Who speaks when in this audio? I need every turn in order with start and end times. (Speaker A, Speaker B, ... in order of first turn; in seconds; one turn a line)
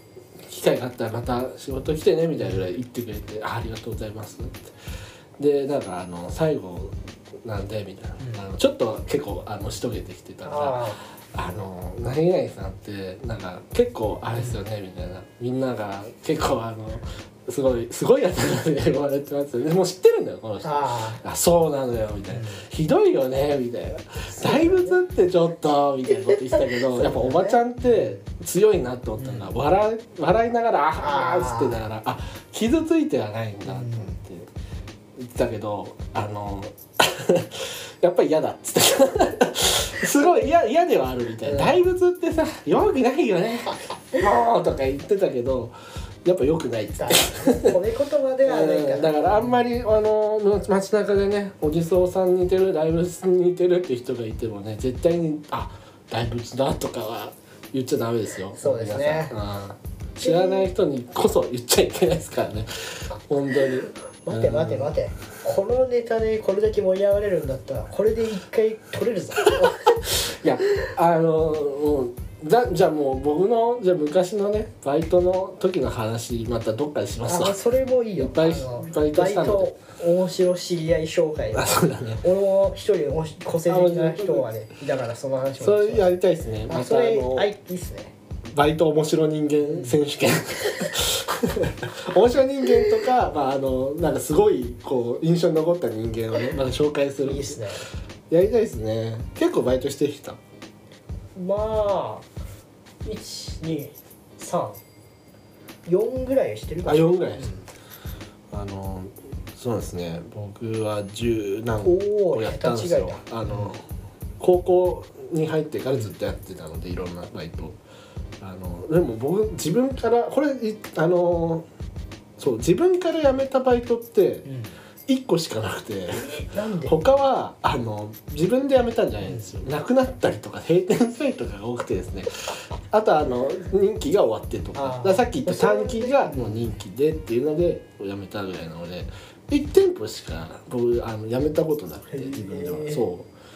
Speaker A: 0.4-4.7
Speaker A: 5.4-34.5
Speaker B: 8.2-8.4
Speaker B: 10.4-11.0
Speaker B: 20.6-21.2
Speaker B: 22.3-22.6
Speaker B: 24.3-25.0
Speaker B: 26.8-28.2
Speaker B: 29.2-29.5
Speaker B: 31.0-31.8
Speaker B: 33.7-34.2
Speaker A: 35.2-47.8
Speaker B: 40.2-40.5
Speaker B: 41.5-41.8
Speaker B: 47.0-49.6
Speaker A: 48.5-64.9
Speaker B: 58.6-59.4
Speaker B: 60.2-60.7
Speaker B: 64.2-70.0
Speaker A: 69.6-77.6
Speaker B: 77.3-86.1
Speaker A: 78.2-79.7
Speaker A: 81.5-82.2
Speaker A: 83.7-84.5
Speaker A: 85.6-87.5
Speaker B: 86.7-88.1
Speaker A: 88.5-97.6
Speaker B: 89.7-90.0
Speaker B: 97.2-97.8
Speaker A: 98.3-100.4
Speaker B: 101.3-102.3
Speaker B: 103.0-104.8
Speaker B: 105.9-107.7
Speaker A: 106.9-107.5
Speaker A: 108.5-113.8
Speaker B: 111.8-113.7
Speaker A: 114.4-117.8
Speaker A: 118.4-121.7
Speaker A: 122.4-124.5
Speaker B: 124.5-124.7
Speaker A: 125.1-143.3
Speaker B: 126.1-127.0
Speaker B: 129.2-129.5
Speaker B: 134.8-136.6
Speaker B: 142.1-143.1